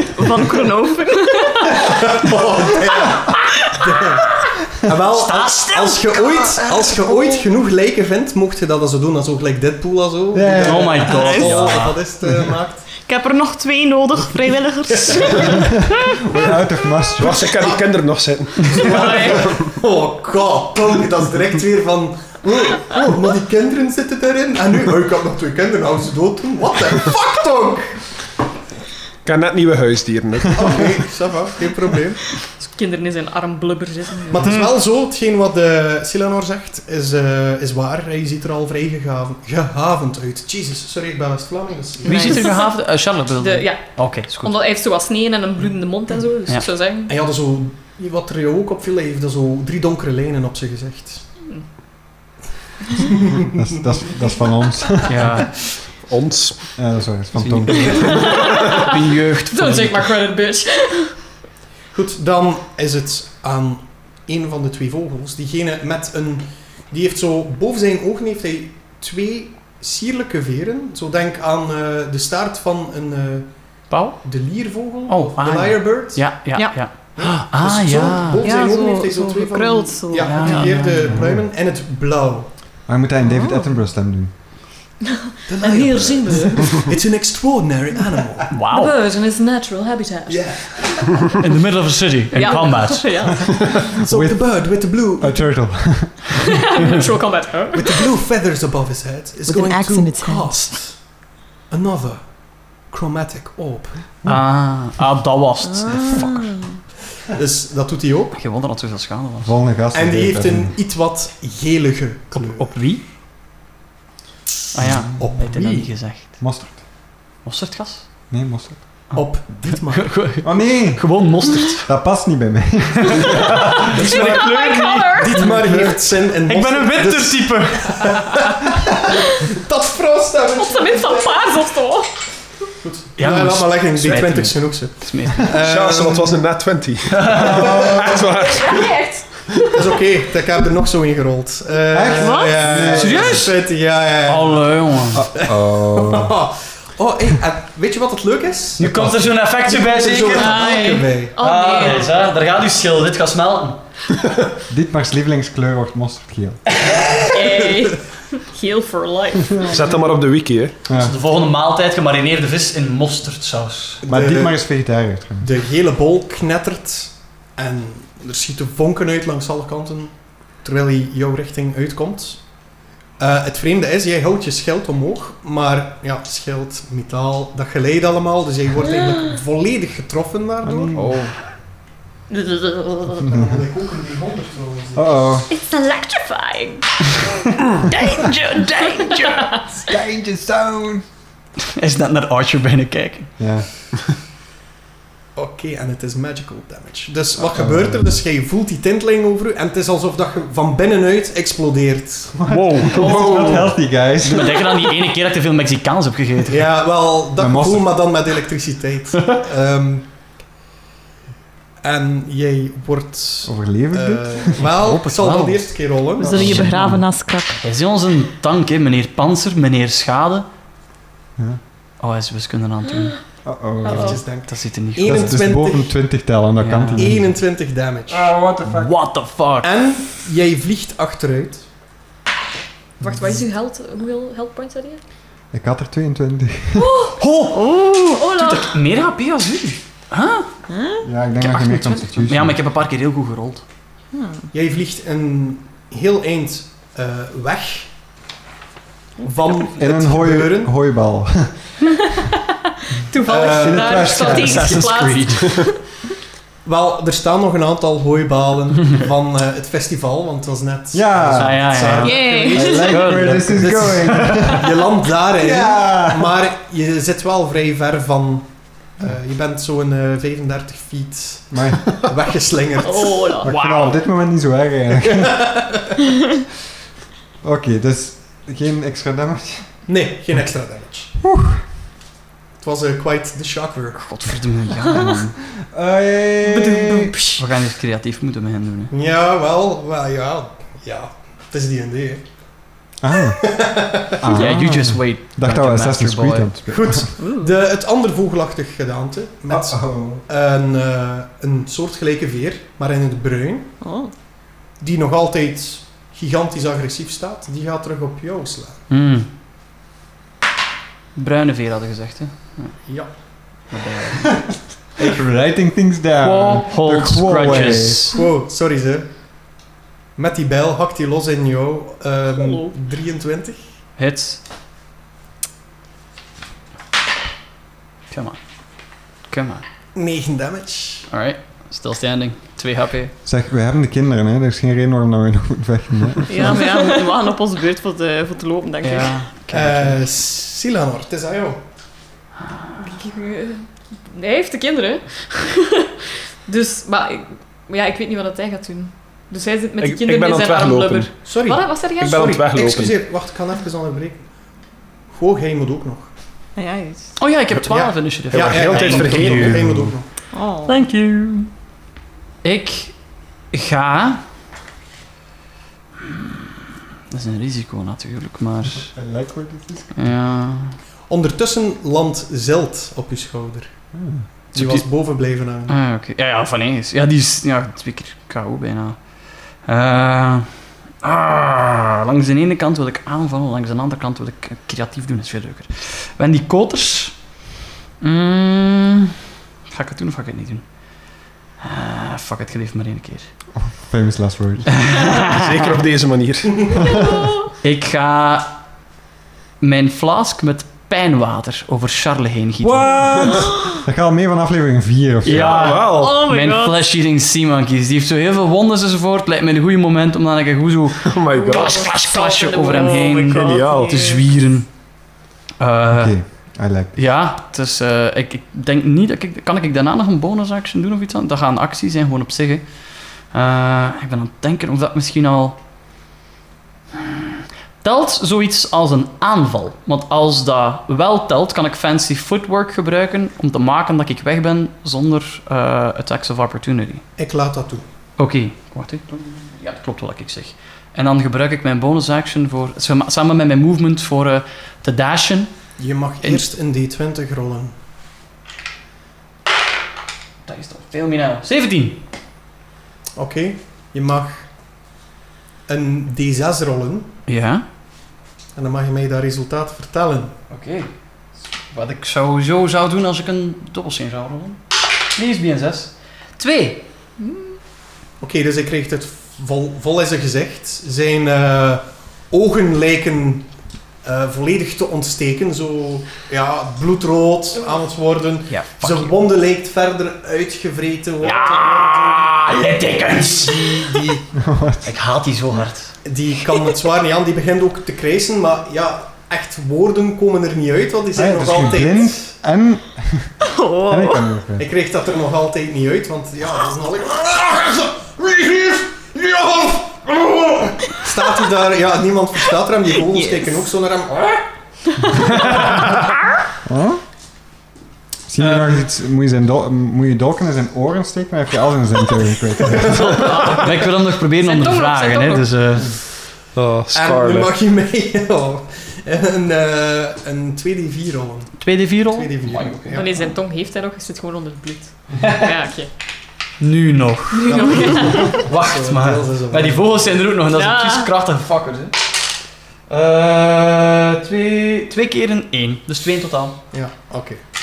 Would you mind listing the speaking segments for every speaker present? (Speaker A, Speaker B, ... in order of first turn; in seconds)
Speaker A: 0.1-1.5, 6.1-7.5, 11.0-11.8, 13.0-15.8, 42.1-42.4, 76.5-76.9, 78.4-81.1, 83.2-83.7, 99.5-100.8, 105.7-106.8, 216.2-217.6, 237.5-238.2, 240.7-241.1, 244.1-244.4, 297.2-297.5, 303.8-304.1, 336.3-339.2, 356.6-357.2, 360.3-360.8, 403.4-403.7, 405.4-406.8, 411.4-414.2, 493.5-494.2
Speaker B: 1.2-1.8, 18.8-19.4, 32.6-34.5, 42.1-42.9, 43.4-47.1, 58.0-58.8, 59.5-61.2, 85.6-86.7, 88.7-91.0, 92.3-93.9, 96.7-98.1, 124.0-125.5, 130.6-132.2, 138.4-139.5, 142.2-142.6, 150.3-152.2, 157.3-159.8, 182.3-183.3, 185.5-187.2, 187.9-189.6, 223.8-224.2, 233.0-235.0, 236.8-237.2, 238.2-238.7, 253.1-255.8, 262.0-263.0, 272.8-273.6, 286.4-287.4, 322.4-322.7, 342.8-352.3, 411.4-411.9, 412.7-413.4, 467.2-467.5, 513.2-513.7, 514.4-515.5, 522.9-525.9, 527.3-528.4, 530.5-531.1
Speaker C: 1.8-12.9, 14.9-15.6, 17.4-17.9, 18.6-28.0, 30.5-32.2, 34.3-42.4, 47.1-51.2, 61.9-76.5, 77.0-82.5, 85.5-88.5, 90.3-91.2, 93.9-95.4, 97.7-104.1, 107.3-108.4, 109.9-112.7, 115.2-115.9, 119.1-120.2, 123.9-128.8, 129.3-131.7, 132.8-136.3, 139.7-148.9, 149.6-151.4, 164.0-164.7, 165.4-181.0, 183.2-185.3, 195.3-202.4, 206.5-210.1, 211.8-216.5, 223.9-226.0, 226.9-228.3, 229.6-231.7, 244.5-247.9, 249.2-250.7, 253.2-254.5, 256.6-273.4, 275.0-275.9, 279.9-281.1, 282.6-284.0, 288.9-292.2, 293.4-294.2, 296.7-303.8, 304.8-308.8, 312.9-313.1, 318.1-319.1, 320.1-323.7, 329.9-331.1, 339.5-341.6, 351.2-356.1, 357.6-360.1, 371.1-373.8, 374.5-375.8, 437.2-437.8, 445.8-447.7, 453.1-454.5, 455.7-457.1, 458.5-460.3, 468.2-482.4, 483.0-484.2, 486.0-492.3, 494.6-504.5, 508.4-508.7, 516.9-523.3, 527.5-530.2, 536.7-537.4
Speaker D: 5.1-6.1, 10.6-12.0, 42.0-44.6, 55.0-55.7, 57.4-60.2, 73.9-74.3, 75.1-78.5, 80.2-81.2, 88.5-89.0, 91.4-93.4, 104.2-106.5, 108.3-109.5, 112.3-113.0, 114.7-116.8, 117.4-118.2, 119.1-121.9, 123.1-125.9, 126.4-128.4, 133.2-135.5, 137.2-137.7, 142.9-143.7, 144.2-145.3, 148.8-153.8, 156.8-157.1, 160.9-164.0, 180.9-181.3, 187.9-189.5, 191.7-193.3, 202.5-203.7, 204.2-206.6, 214.6-217.1, 217.6-220.4, 222.0-223.4, 224.4-225.3, 226.6-227.1, 228.7-229.8, 237.2-240.5, 241.4-243.6, 254.2-255.8, 261.3-264.6, 273.5-273.9, 284.0-285.3, 287.4-288.9, 294.2-296.5, 308.9-309.3, 311.1-314.6, 316.2-318.2, 324.0-324.4, 328.1-329.6, 331.1-333.1, 338.8-340.0, 357.2-359.9, 360.6-361.5, 362.4-362.9, 363.5-364.2, 366.1-366.4, 367.1-368.9, 369.9-370.8, 374.5-387.4, 388.0-389.1, 389.6-393.3, 394.7-395.6, 397.6-398.6, 399.6-403.4, 405.2-414.9, 415.6-425.6, 427.8-437.0, 438.2-446.4, 450.4-452.0, 457.3-457.6, 460.5-460.9, 461.7-464.6, 465.1-466.8, 478.5-479.1, 481.2-484.1, 484.8-486.0, 512.8-515.9, 521.6-523.0, 526.6-532.1, 532.9-536.6
Speaker E: 10.3-11.1, 15.4-17.6, 53.4-55.4, 56.8-58.4, 81.0-81.5, 82.9-84.6, 94.0-96.5, 104.2-104.5, 109.4-110.8, 114.8-115.3, 116.4-116.8, 118.3-119.2, 120.4-123.8, 125.6-125.9, 137.4-138.2, 141.9-143.5, 145.1-146.4, 148.8-149.2, 154.7-156.7, 160.9-161.1, 164.1-165.5, 180.6-181.2, 183.2-183.5, 184.9-185.5, 189.8-191.0, 193.4-193.7, 197.4-198.2, 202.4-204.6, 207.4-208.0, 213.4-214.7, 216.2-217.0, 223.4-224.2, 225.0-227.4, 228.1-228.9, 235.5-236.9, 241.0-242.6, 249.8-252.0, 253.4-254.9, 260.9-264.7, 265.4-266.3, 271.5-272.0, 273.4-275.5, 277.4-279.8, 281.2-281.6, 285.0-287.1, 293.0-297.1, 299.5-300.2, 315.0-318.1, 333.2-336.6, 368.6-369.9, 373.9-374.3, 393.5-394.8, 402.7-405.8, 415.9-417.0, 484.3-484.9, 491.1-494.6, 506.6-507.0, 508.3-513.3
Speaker F: 17.2-19.3, 29.2-31.0, 55.9-56.8, 58.1-58.6, 135.6-139.4, 159.7-160.7, 202.8-203.6, 349.8-351.3, 352.0-353.0, 358.3-359.6, 395.3-396.9, 405.3-406.2, 411.0-411.9, 413.4-414.0, 516.5-517.5